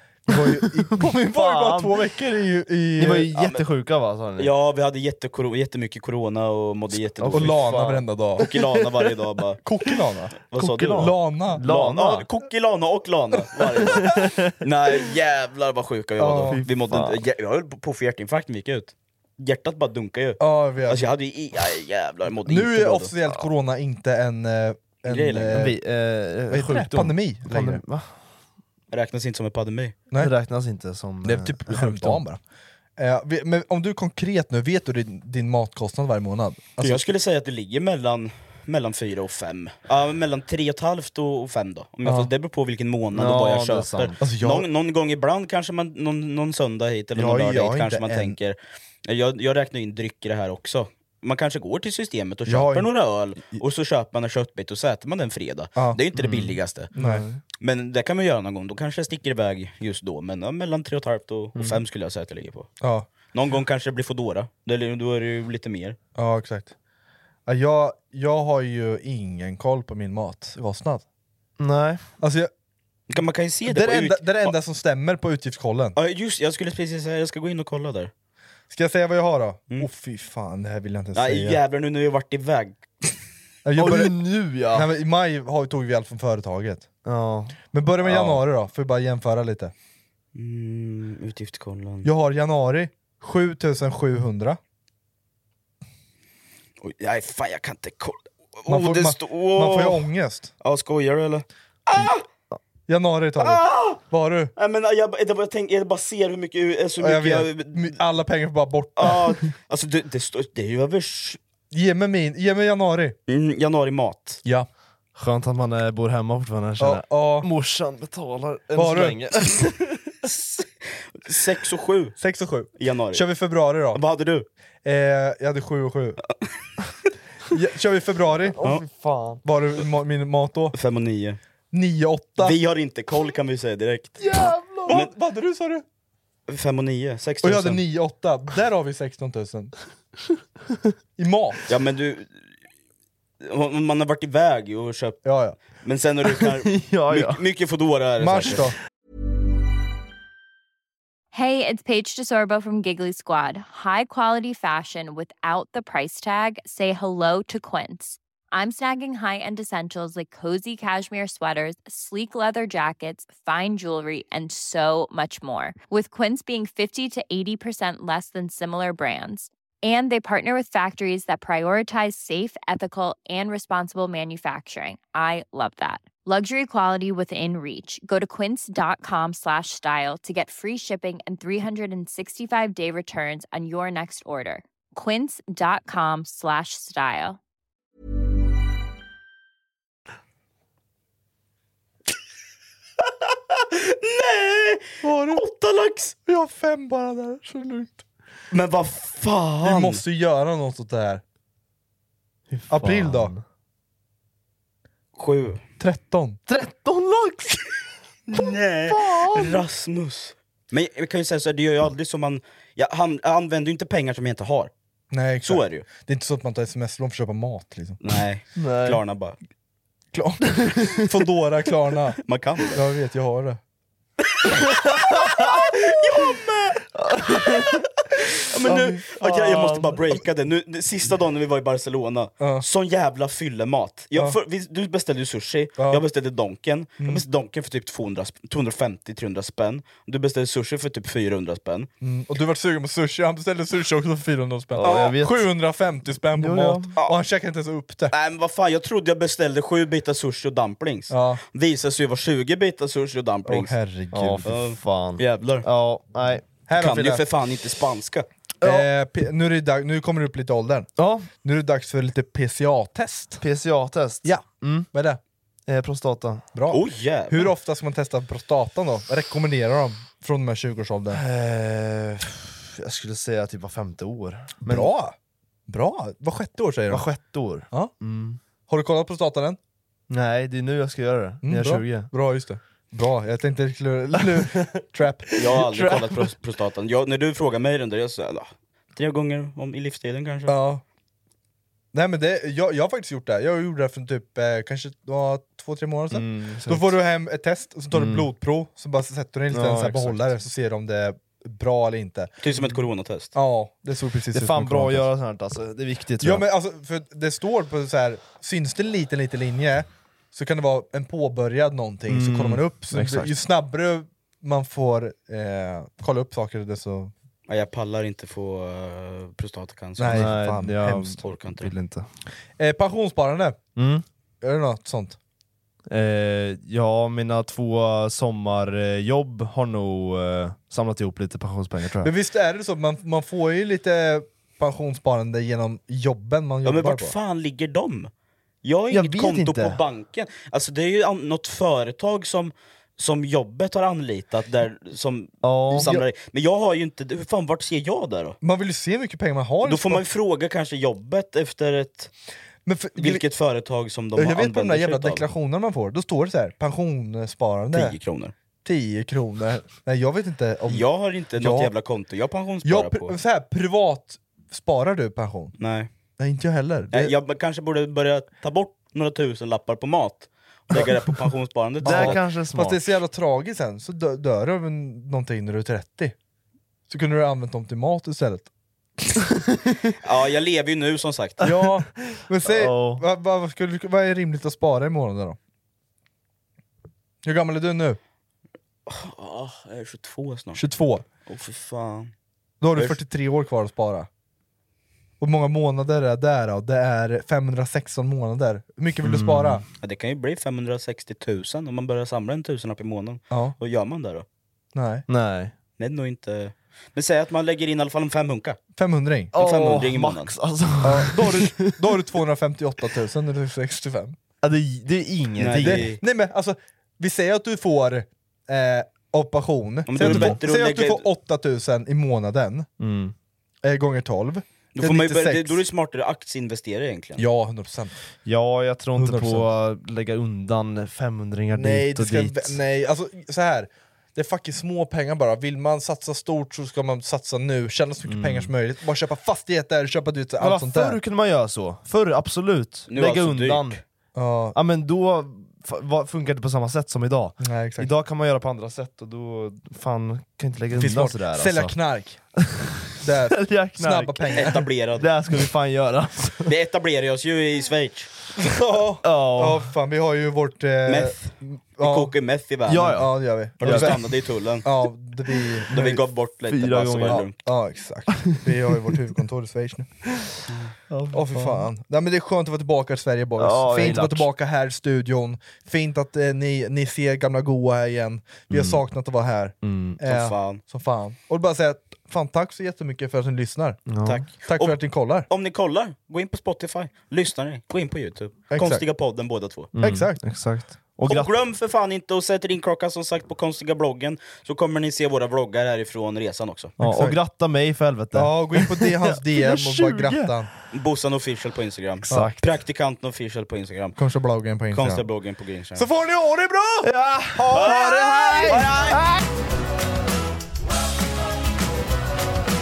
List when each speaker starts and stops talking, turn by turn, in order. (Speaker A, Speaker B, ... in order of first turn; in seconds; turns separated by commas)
Speaker A: 0.3-3.3, Speaker B: 1.0-2.0, Speaker B: 3.0-4.5, Speaker C: 4.4-7.8, Speaker B: 6.9-9.2, Speaker A: 7.3-8.5, Speaker C: 8.4-9.6, Speaker A: 9.7-10.4, Speaker C: 10.5-23.1, Speaker B: 10.6-12.3, Speaker A: 10.9-11.6, Speaker B: 14.0-14.6, Speaker A: 16.2-16.6, Speaker B: 16.5-17.2, Speaker A: 20.4-21.1, Speaker A: 22.5-25.8, Speaker C: 25.1-25.6, Speaker B: 25.5-28.1, Speaker A: 26.5-27.8, Speaker C: 28.9-30.0, Speaker B: 30.2-32.2, Speaker A: 31.2-32.4, Speaker A: 33.0-37.0, Speaker C: 36.8-56.9, Speaker A: 42.0-42.3, Speaker B: 43.1-44.2, Speaker A: 44.2-44.7, Speaker A: 47.2-48.4, Speaker A: 52.5-52.9, Speaker B: 56.1-57.4, Speaker A: 57.0-57.2, Speaker C: 57.6-62.7, Speaker B: 61.6-61.8, Speaker A: 62.8-63.1, Speaker C: 63.3-66.0, Speaker A: 66.2-66.7, Speaker A: 67.5-71.0, Speaker B: 71.6-72.0, Speaker A: 72.2-72.5, Speaker C: 73.1-74.5, Speaker A: 73.7-76.0, Speaker C: 76.0-78.1, Speaker A: 78.7-81.6, Speaker C: 81.2-83.1, Speaker A: 83.7-84.2, Speaker B: 83.8-84.9, Speaker A: 84.7-86.9, Speaker B: 87.0-87.7, Speaker A: 87.7-89.7, Speaker C: 90.3-92.1, Speaker A: 92.0-94.6, Speaker C: 96.8-100.1, Speaker A: 98.7-100.5, Speaker C: 100.6-102.2, Speaker A: 102.9-104.5, Speaker C: 103.4-104.0, Speaker C: 104.6-108.0, Speaker A: 107.0-109.2, Speaker C: 109.0-111.4, Speaker A: 111.7-113.2, Speaker C: 113.3-114.4, Speaker B: 115.2-120.0, Speaker A: 116.8-117.5, Speaker A: 118.8-119.2, Speaker C: 120.2-120.7, Speaker C: 121.2-122.2, Speaker A: 122.2-124.0, Speaker C: 122.8-123.3, Speaker C: 123.9-124.5, Speaker A: 124.8-126.2, Speaker A: 127.5-128.6, Speaker B: 128.5-129.4, Speaker A: 129.4-130.8, Speaker C: 130.8-131.4, Speaker A: 131.7-132.6, Speaker C: 132.4-134.2, Speaker B: 134.2-135.0, Speaker A: 134.9-135.8, Speaker C: 136.5-137.8, Speaker A: 137.4-139.7, Speaker A: 141.2-141.6, Speaker C: 141.7-142.3, Speaker C: 143.4-145.2, Speaker A: 145.2-145.6, Speaker C: 145.8-148.7, Speaker B: 146.3-147.4, Speaker A: 148.2-148.8, Speaker D: 151.3-187.4, Speaker C: 193.5-196.2, Speaker A: 195.0-195.4, Speaker A: 196.3-198.0, Speaker C: 198.5-200.0, Speaker A: 199.6-201.2, Speaker B: 202.5-203.4, Speaker A: 202.7-203.3, Speaker C: 205.2-205.6, Speaker A: 205.8-206.4, Speaker B: 206.5-207.6, Speaker C: 208.3-214.7, Speaker B: 208.9-209.6, Speaker A: 215.1-218.0, Speaker C: 215.4-215.9, Speaker C: 218.0-219.4, Speaker B: 218.6-219.0, Speaker A: 220.1-222.2, Speaker C: 222.2-222.8, Speaker A: 222.7-223.6, Speaker C: 225.7-226.8, Speaker B: 227.0-227.8, Speaker C: 228.5-241.9, Speaker B: 228.6-230.0, Speaker A: 232.4-232.7, Speaker A: 235.8-236.0, Speaker A: 242.0-248.1, Speaker B: 244.7-245.5, Speaker B: 246.4-246.9, Speaker C: 248.1-253.7, Speaker A: 251.1-251.4, Speaker A: 253.5-254.5, Speaker B: 254.1-256.5, Speaker C: 254.5-255.7, Speaker A: 256.7-257.2, Speaker C: 256.7-258.3, Speaker B: 258.6-258.9, Speaker A: 258.6-263.4, Speaker B: 261.0-261.3, Speaker B: 263.4-264.9, Speaker A: 264.2-265.2, Speaker B: 265.7-266.4, Speaker A: 266.6-271.2, Speaker C: 266.7-267.5, Speaker B: 271.1-274.9, Speaker A: 274.7-275.1, Speaker A: 275.7-277.1, Speaker B: 276.9-278.4, Speaker A: 278.7-279.6, Speaker B: 280.1-282.1, Speaker A: 281.4-285.4, Speaker B: 284.4-286.2, Speaker C: 285.4-290.6, Speaker A: 290.5-290.8, Speaker A: 291.9-302.3, Speaker B: 296.1-296.9, Speaker B: 297.9-298.3, Speaker B: 299.5-300.3, Speaker C: 302.4-303.3, Speaker A: 303.3-305.1, Speaker B: 304.3-306.4, Speaker A: 306.2-317.1, Speaker B: 312.1-313.3, Speaker C: 317.5-320.3, Speaker A: 320.0-321.2, Speaker B: 320.1-322.1, Speaker C: 321.2-321.7, Speaker A: 322.6-323.6, Speaker B: 323.8-324.0, Speaker A: 324.4-325.2, Speaker B: 325.9-332.1, Speaker A: 332.0-337.2, Speaker C: 336.6-338.1, Speaker C: 338.6-348.4, Speaker B: 338.9-339.8, Speaker B: 345.4-345.9, Speaker A: 348.4-350.0, Speaker C: 349.6-352.1, Speaker A: 352.7-353.2, Speaker C: 353.0-355.3, Speaker A: 354.2-358.0, Speaker C: 357.7-358.3, Speaker A: 358.6-360.9, Speaker C: 360.7-363.1, Speaker A: 361.4-361.7, Speaker A: 362.6-365.6, Speaker C: 365.6-365.9, Speaker A: 366.2-367.1, Speaker C: 366.9-372.2, Speaker B: 371.8-372.8, Speaker A: 371.8-376.1, Speaker A: 376.9-378.5, Speaker B: 379.5-379.9, Speaker C: 380.0-381.4, Speaker A: 381.4-385.4, Speaker B: 382.1-383.0, Speaker A: 387.2-388.0, Speaker C: 388.9-390.6, Speaker A: 390.6-391.1, Speaker C: 391.3-392.1, Speaker A: 392.6-394.1, Speaker A: 395.2-399.6, Speaker B: 399.0-399.6, Speaker C: 399.8-404.2, Speaker A: 404.8-405.1, Speaker B: 405.1-405.5, Speaker C: 405.8-408.6, Speaker A: 408.8-409.9, Speaker B: 409.3-411.8, Speaker C: 409.4-410.3, Speaker A: 410.8-414.2, Speaker B: 414.4-415.9, Speaker C: 415.4-416.0, Speaker A: 415.5-422.7, Speaker C: 419.9-421.0, Speaker B: 420.0-420.4, Speaker B: 422.8-423.1, Speaker A: 423.6-425.6, Speaker C: 424.8-427.2, Speaker A: 427.2-428.0, Speaker B: 428.3-432.6, Speaker A: 429.0-429.5, Speaker A: 431.6-441.0, Speaker B: 438.1-438.5, Speaker B: 440.4-443.8, Speaker C: 442.9-443.8, Speaker A: 444.2-444.6, Speaker B: 444.6-451.8, Speaker A: 447.4-447.9, Speaker A: 450.7-452.2, Speaker B: 452.4-456.5, Speaker A: 453.0-454.6, Speaker C: 454.3-455.1, Speaker C: 456.5-458.1, Speaker A: 458.4-462.1, Speaker B: 459.0-459.7, Speaker C: 460.9-463.1, Speaker B: 462.7-464.1, Speaker A: 462.9-464.0, Speaker C: 463.6-464.7, Speaker A: 464.6-466.0, Speaker C: 465.7-467.4, Speaker B: 466.5-467.3, Speaker A: 467.1-469.9, Speaker B: 470.9-471.7, Speaker A: 471.1-483.8, Speaker B: 473.4-474.3, Speaker B: 478.5-478.8, Speaker B: 479.6-480.0, Speaker C: 480.1-480.6, Speaker B: 483.9-484.3, Speaker C: 484.1-489.7, Speaker A: 484.5-485.3, Speaker A: 488.5-488.8, Speaker B: 489.7-491.3, Speaker A: 489.8-490.2, Speaker C: 491.1-496.7, Speaker B: 496.8-500.3, Speaker A: 496.8-497.2, Speaker A: 498.1-500.5, Speaker C: 500.7-504.0, Speaker B: 502.1-502.4, Speaker A: 504.0-505.1, Speaker C: 504.7-505.9, Speaker A: 505.8-508.8, Speaker B: 506.8-509.2, Speaker C: 507.5-509.0